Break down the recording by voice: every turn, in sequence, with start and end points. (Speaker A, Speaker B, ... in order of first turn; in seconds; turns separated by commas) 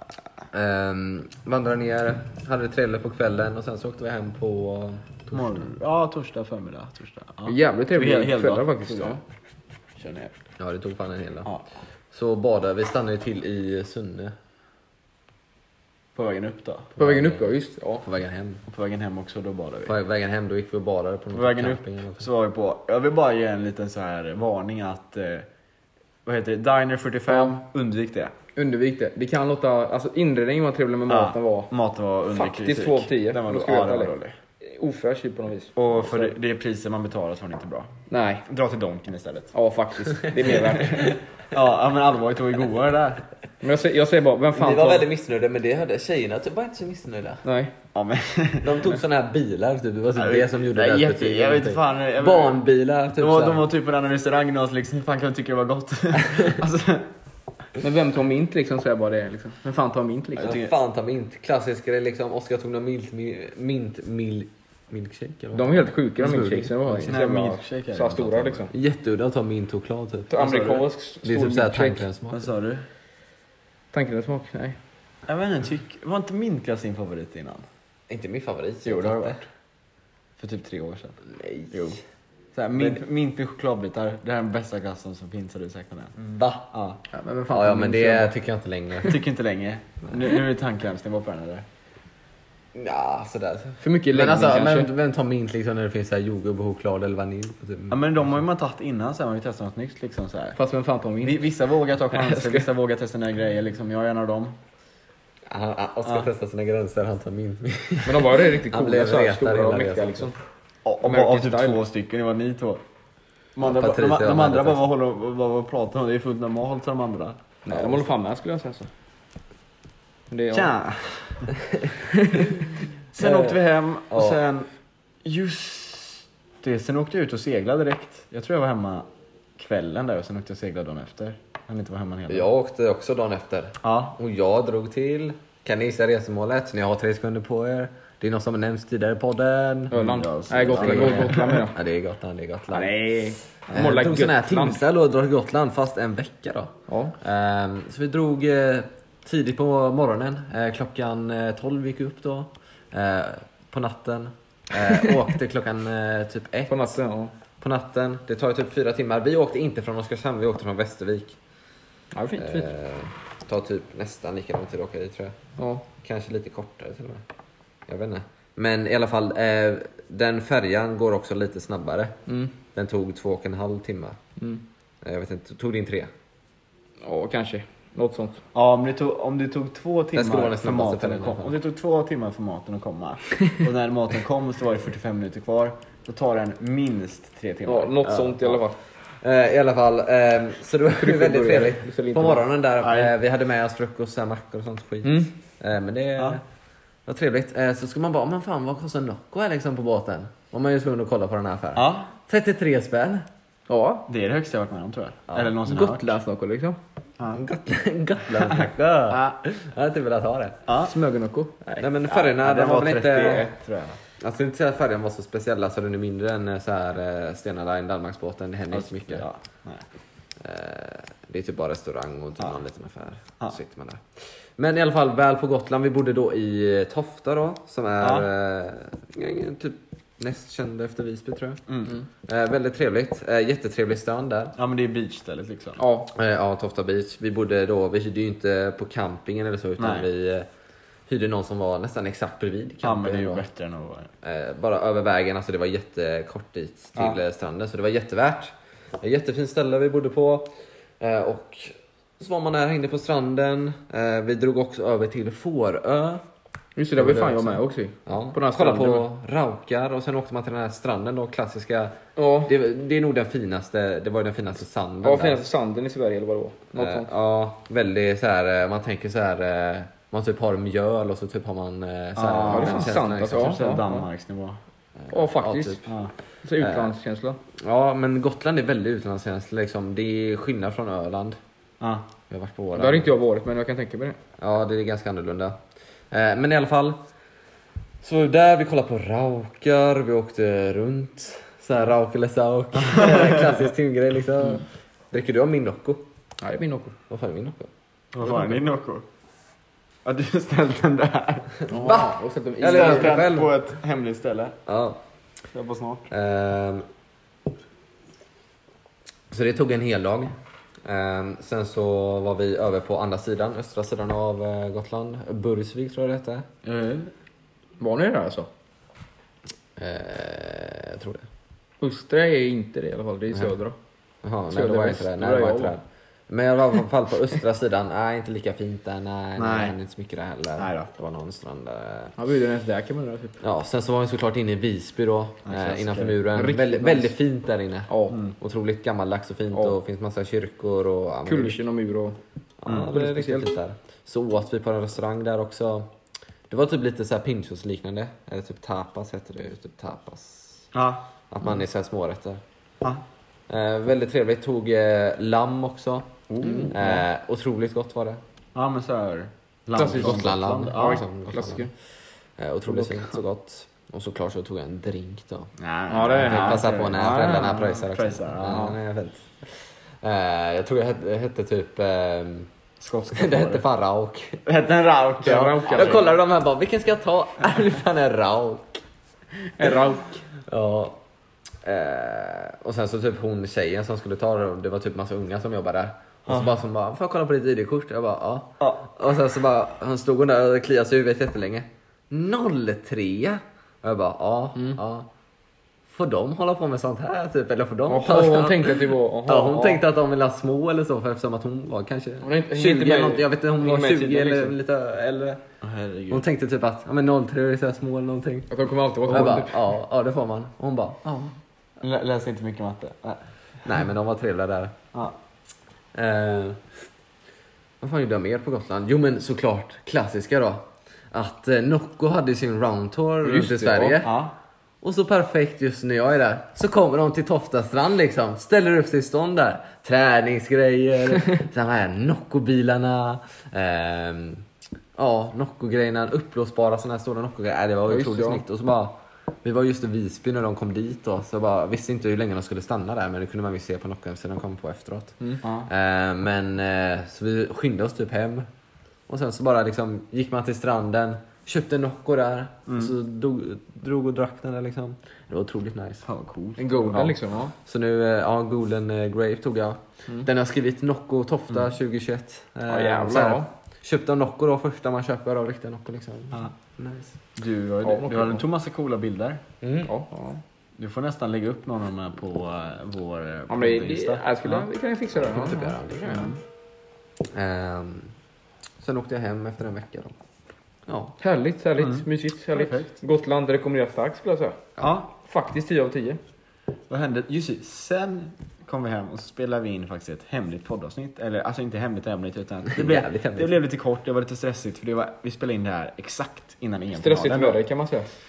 Speaker A: 0.5-5.4, Speaker B: 5.3-9.2, Speaker C: 7.5-9.2, Speaker B: 10.0-10.3, Speaker A: 10.6-11.5, Speaker A: 12.1-14.3, Speaker B: 16.1-17.0, Speaker C: 17.0-18.1, Speaker A: 17.0-17.4, Speaker A: 18.0-18.6, Speaker B: 18.7-20.0, Speaker A: 19.9-22.3, Speaker B: 21.3-25.5, Speaker B: 26.3-28.3, Speaker C: 28.6-31.7, Speaker B: 31.1-34.3, Speaker C: 32.3-36.3, Speaker B: 35.8-37.9, Speaker C: 38.1-38.4, Speaker B: 38.5-39.5, Speaker C: 39.5-41.2, Speaker B: 41.5-43.2, Speaker C: 43.6-45.1, Speaker A: 44.5-47.4, Speaker C: 47.5-47.7, Speaker B: 47.9-48.7, Speaker A: 48.6-53.6, Speaker B: 50.1-52.6, Speaker B: 53.2-57.1, Speaker A: 56.2-56.6, Speaker C: 57.8-60.6, Speaker B: 60.4-60.7, Speaker A: 60.4-67.1, Speaker C: 65.5-68.7, Speaker B: 66.2-68.7, Speaker A: 68.7-70.3, Speaker C: 70.3-72.1, Speaker B: 70.4-70.8, Speaker A: 71.2-72.5, Speaker B: 72.3-72.8, Speaker C: 73.9-74.8, Speaker B: 75.3-77.7, Speaker A: 78.1-79.4, Speaker B: 78.8-79.5, Speaker B: 80.4-82.0, Speaker A: 81.3-81.9, Speaker B: 82.5-87.0, Speaker A: 86.2-86.7, Speaker C: 87.1-88.3, Speaker A: 87.5-89.2, Speaker B: 89.0-91.7, Speaker A: 92.7-98.0, Speaker C: 93.8-94.9, Speaker B: 97.9-100.6, Speaker C: 100.6-101.4, Speaker B: 101.2-104.5, Speaker C: 102.1-102.7, Speaker A: 105.5-110.3, Speaker C: 108.0-110.3, Speaker B: 110.8-112.8, Speaker C: 111.0-111.8, Speaker B: 113.6-117.4, Speaker A: 113.6-114.8, Speaker C: 117.7-118.9, Speaker C: 120.3-120.7, Speaker B: 120.5-121.5, Speaker A: 121.7-121.9, Speaker C: 122.2-122.6, Speaker B: 123.1-124.7, Speaker A: 123.2-124.4, Speaker B: 125.2-129.1, Speaker B: 129.6-132.5, Speaker A: 132.3-140.1, Speaker B: 133.8-134.2, Speaker C: 139.9-141.8, Speaker B: 139.9-141.7, Speaker A: 140.7-143.0, Speaker C: 142.8-144.8, Speaker B: 143.0-143.8, Speaker A: 143.7-157.0, Speaker C: 146.9-147.2, Speaker C: 154.8-155.2, Speaker C: 156.7-157.3, Speaker A: 157.6-161.4, Speaker C: 162.1-162.7, Speaker A: 162.4-165.4, Speaker C: 165.6-165.9, Speaker A: 166.0-167.2, Speaker A: 167.9-172.1, Speaker C: 172.3-172.5, Speaker A: 172.7-174.2, Speaker A: 175.0-176.1, Speaker C: 177.0-178.4, Speaker B: 178.5-188.0, Speaker A: 180.2-181.6, Speaker C: 187.7-188.8, Speaker A: 188.0-188.6, Speaker A: 189.2-196.4, Speaker C: 191.0-192.4, Speaker B: 192.8-193.1, Speaker C: 195.0-195.3, Speaker A: 197.1-203.3, Speaker B: 201.8-202.1, Speaker C: 203.7-204.1, Speaker B: 204.1-206.2, Speaker A: 205.3-205.6, Speaker C: 205.7-206.8, Speaker A: 207.3-210.6, Speaker B: 208.3-209.4, Speaker B: 210.7-210.9, Speaker C: 210.8-211.8, Speaker A: 211.8-213.5, Speaker B: 212.0-214.0, Speaker A: 214.2-219.2, Speaker B: 218.7-219.8, Speaker A: 220.4-224.1, Speaker A: 224.6-231.6, Speaker B: 228.0-228.3, Speaker B: 231.7-232.0, Speaker A: 232.3-234.6, Speaker B: 234.6-235.8, Speaker C: 235.8-236.1, Speaker A: 236.1-240.5, Speaker B: 239.8-240.1, Speaker A: 241.1-243.4, Speaker B: 242.8-244.1, Speaker A: 244.2-256.2, Speaker C: 256.8-259.1, Speaker A: 257.0-265.4, Speaker C: 262.2-262.5, Speaker C: 265.0-267.1, Speaker A: 266.8-273.6, Speaker B: 272.2-274.6, Speaker C: 272.5-274.1, Speaker A: 275.0-275.9, Speaker C: 275.1-275.9, Speaker C: 276.4-277.4, Speaker A: 276.6-276.9, Speaker A: 277.6-281.4, Speaker A: 282.3-283.1, Speaker C: 282.8-284.2, Speaker A: 284.4-285.6, Speaker A: 286.1-287.0, Speaker A: 288.0-296.0, Speaker B: 292.8-293.6, Speaker C: 296.4-296.9, Speaker A: 297.1-297.7, Speaker B: 298.1-299.1, Speaker B: 300.1-301.6, Speaker C: 301.7-303.2, Speaker A: 301.7-303.5, Speaker B: 302.6-304.6, Speaker A: 304.7-305.0, Speaker B: 305.5-306.1, Speaker A: 306.1-306.9, Speaker A: 309.3-316.5, Speaker B: 316.6-317.1, Speaker C: 317.8-318.5, Speaker A: 319.8-321.3, Speaker C: 321.8-323.8, Speaker A: 324.2-332.1, Speaker C: 324.5-325.8, Speaker B: 329.4-329.8, Speaker B: 330.6-330.9, Speaker C: 332.2-333.4, Speaker A: 333.4-341.6, Speaker B: 335.4-336.2, Speaker C: 336.3-337.1, Speaker C: 337.9-338.2, Speaker B: 338.1-338.4, Speaker C: 341.3-342.2, Speaker A: 342.6-345.9, Speaker C: 342.9-343.5, Speaker A: 346.5-350.7, Speaker B: 350.7-351.1, Speaker A: 351.3-352.4, Speaker A: 353.5-356.1, Speaker B: 356.3-357.1, Speaker C: 356.4-356.7, Speaker A: 356.7-358.2, Speaker B: 358.6-361.0, Speaker C: 359.8-361.7, Speaker A: 359.8-361.7, Speaker A: 362.4-365.5, Speaker B: 365.6-368.8, Speaker C: 365.9-366.6, Speaker A: 366.1-372.5, Speaker B: 372.8-373.6, Speaker A: 373.1-374.4, Speaker B: 374.4-376.1, Speaker C: 375.2-376.2, Speaker A: 375.3-378.8, Speaker C: 379.6-380.2, Speaker A: 380.5-381.0, Speaker A: 381.6-395.1, Speaker B: 386.3-386.5, Speaker A: 395.9-405.4, Speaker C: 397.9-399.8, Speaker C: 402.2-404.6, Speaker B: 405.6-406.3, Speaker A: 406.1-408.5, Speaker C: 408.5-409.7, Speaker A: 409.1-411.1, Speaker B: 411.8-413.2, Speaker A: 413.6-414.7, Speaker A: 415.9-416.7, Speaker A: 417.8-424.2, Speaker C: 423.2-424.0, Speaker B: 424.0-424.3, Speaker A: 424.8-448.5, Speaker C: 437.9-438.4, Speaker B: 445.4-445.7, Speaker A: 449.1-456.1, Speaker B: 452.7-452.9, Speaker B: 456.1-457.2, Speaker C: 456.6-457.5, Speaker A: 457.6-467.1, Speaker C: 462.7-463.5, Speaker B: 467.4-469.4, Speaker C: 467.8-468.4, Speaker A: 469.6-469.9, Speaker C: 469.9-470.4, Speaker B: 470.8-474.6, Speaker C: 473.5-475.8, Speaker A: 475.1-476.4, Speaker B: 476.1-476.4, Speaker A: 477.3-478.1, Speaker A: 478.8-480.2, Speaker A: 480.9-481.2, Speaker C: 481.2-486.2, Speaker B: 481.8-482.9, Speaker B: 484.8-485.1, Speaker B: 486.9-497.6, Speaker A: 492.7-493.6, Speaker C: 497.0-498.1